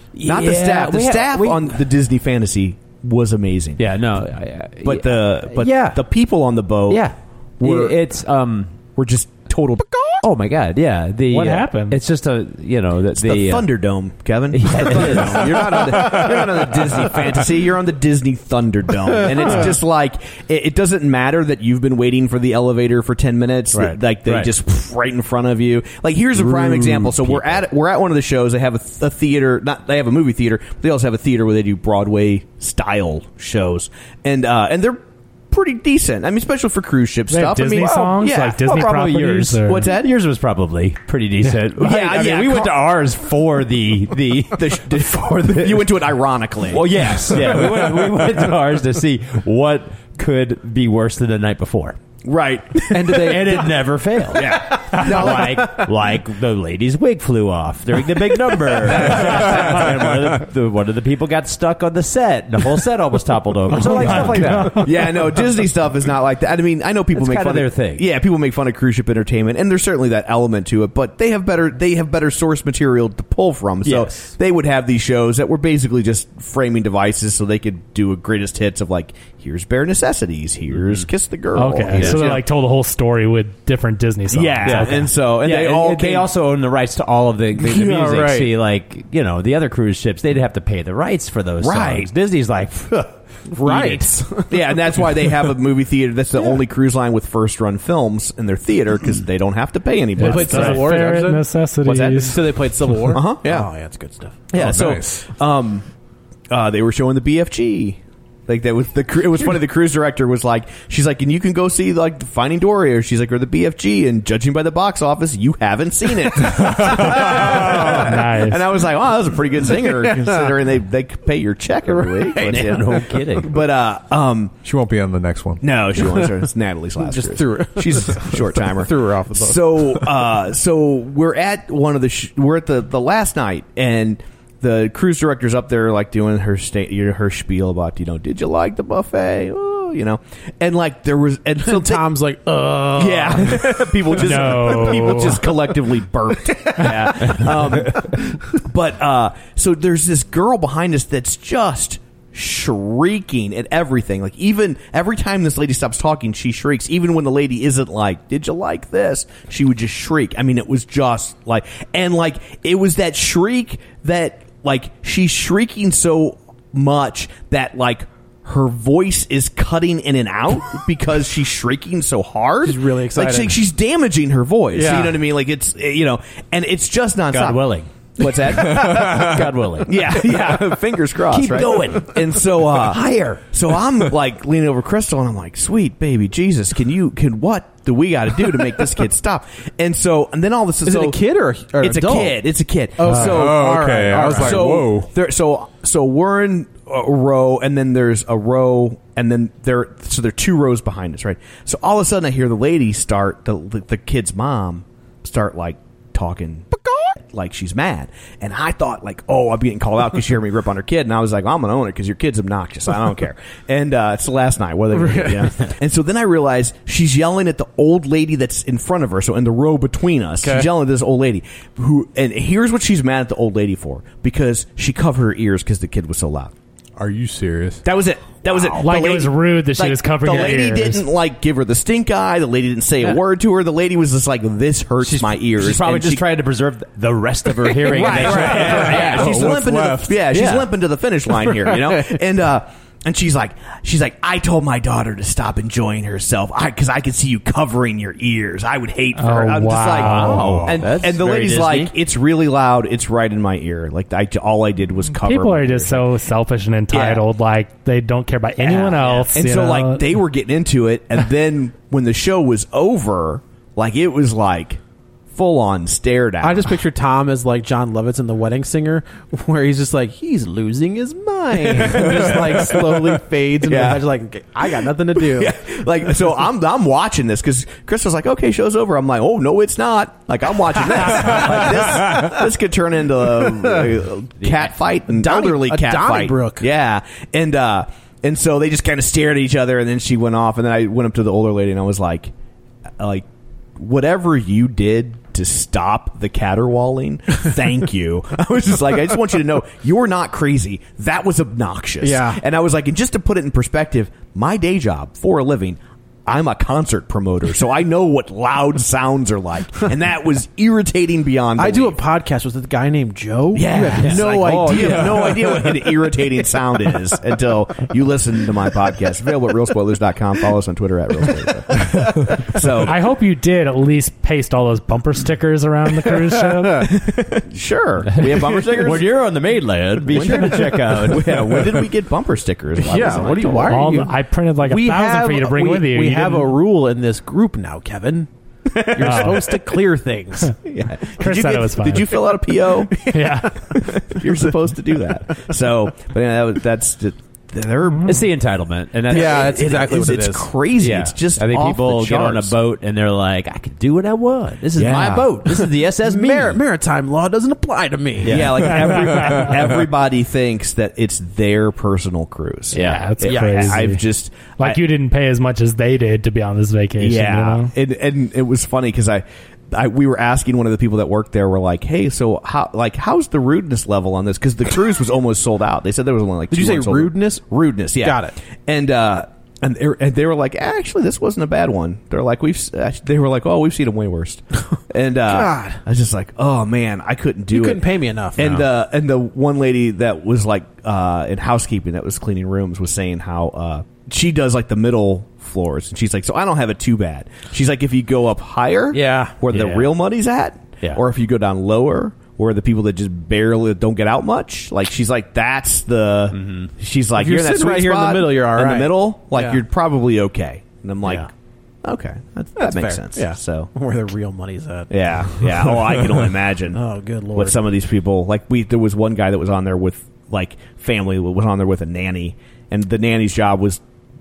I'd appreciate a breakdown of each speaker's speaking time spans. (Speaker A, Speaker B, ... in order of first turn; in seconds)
Speaker A: 0.2-1.8, 3.8-6.0, 6.9-8.8, 10.2-13.7, 14.5-16.5, 23.7-24.5, 26.4-27.6, 38.6-46.0, 46.7-52.0, 52.9-64.9, 67.2-68.0, 73.8-74.3, 80.7-81.1, 81.9-82.3, 84.6-93.1, 122.4-123.5, 177.3-177.9, 178.5-180.4, 181.3-183.5, 235.0-239.4, 250.0-251.9, 284.4-284.7, 314.0-314.7, 328.1-331.7, 348.1-349.6, 350.8-356.6, 358.2-359.2, 362.7-363.1, 399.5-399.9, 406.3-406.7
Speaker B: 0.2-3.8, 4.8-7.1, 7.6-8.0, 8.9-9.9, 13.2-38.8, 39.6-40.1, 41.7-42.9, 44.5-47.6, 52.2-53.7, 54.3-55.9, 58.6-60.0, 63.8-82.4, 84.3-86.3, 91.6-92.1, 93.6-101.0, 103.1-103.7, 104.5-105.9, 106.5-124.5, 125.6-142.1, 142.9-191.2, 191.8-226.5, 227.8-236.2, 237.9-256.1, 256.9-257.2, 258.6-264.8, 265.3-266.8, 271.5-274.1, 274.6-292.3, 293.0-293.2, 293.8-312.0, 313.5-323.0, 326.9-329.1, 330.1-333.9, 338.7-339.7, 340.6-343.1, 343.7-348.3, 349.1-352.6, 354.8-355.6, 358.2-364.8, 367.0-411.3, 411.8-413.7, 414.9-416.8, 417.3-423.8
Speaker C: 11.3-12.0, 37.3-39.9, 63.9-64.9, 81.6-85.0, 100.2-102.4, 117.3-118.7, 144.2-145.4, 228.8-231.0, 249.2-250.5, 255.1-260.1, 322.8-326.9, 333.7-336.5, 339.0-339.4, 341.2-342.2, 343.1-343.6, 362.7-364.0, 364.6-367.7
Speaker D: 87.6-88.5, 93.5-94.7, 100.2-104.5, 119.7-120.6, 121.9-123.3, 126.0-126.4, 127.0-129.8, 141.7-145.8, 146.6-147.4, 172.6-173.6, 174.7-175.2, 190.9-192.4, 193.0-194.9, 214.9-215.5, 220.4-220.7, 237.8-239.2, 240.3-240.6, 241.3-242.2, 266.4-275.5, 285.1-286.7, 302.0-302.4, 311.6-315.4, 330.1-330.8, 332.8-338.3, 338.8-340.6, 349.1-350.5, 354.9-359.1, 363.2-363.8, 376.5-377.4, 378.0-378.4, 385.3-385.8, 387.5-388.6, 398.9-399.4, 407.1-409.6, 412.6-416.0, 416.7-417.6
Speaker E: 104.5-105.2, 116.5-117.6, 124.6-125.6, 193.0-195.1, 227.0-227.8, 238.3-240.3, 250.0-250.8